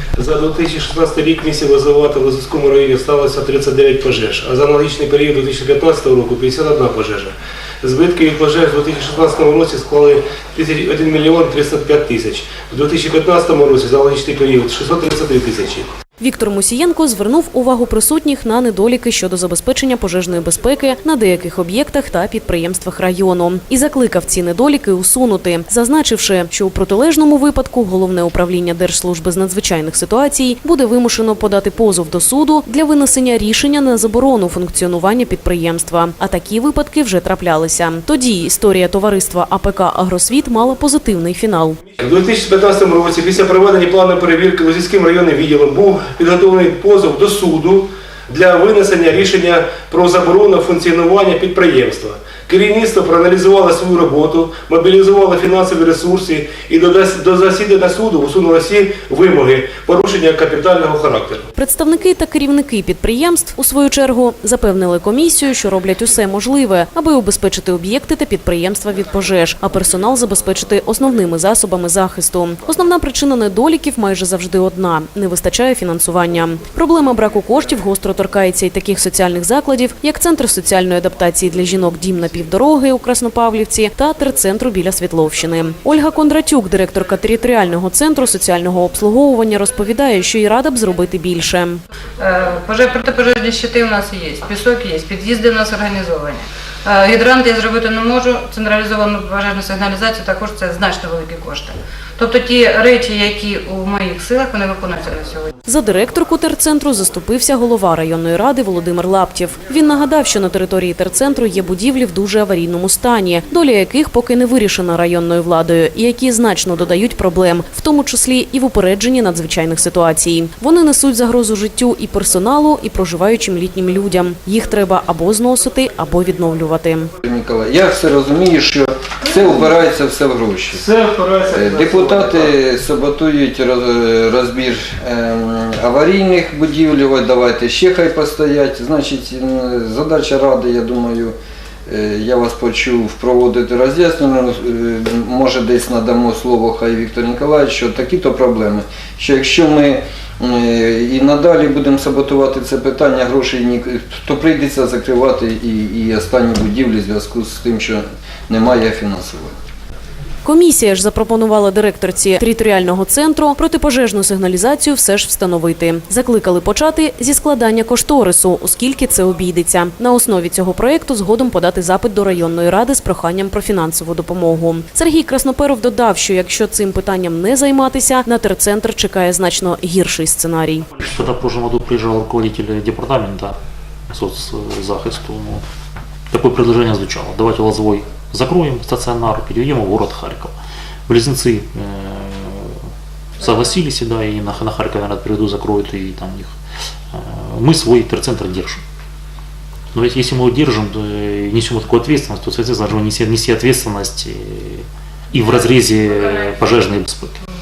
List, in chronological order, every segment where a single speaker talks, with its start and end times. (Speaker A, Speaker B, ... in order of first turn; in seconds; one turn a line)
Speaker A: 0.1-15.9
Speaker B: 16.2-41.8
Speaker A: 42.0-61.5
Speaker B: 61.6-91.8
Speaker C: 92.2-105.5
Speaker B: 105.7-127.1
Speaker D: 127.2-130.8
Speaker A: 130.8-132.0
Speaker D: 131.5-141.3
Speaker D: 141.9-159.5
Speaker B: 160.4-180.9
Speaker E: 181.0-183.5
Speaker E: 184.1-185.6
Speaker E: 186.3-190.5
Speaker E: 191.1-192.8
Speaker E: 193.4-196.6
Speaker E: 197.1-198.8
Speaker E: 199.9-207.4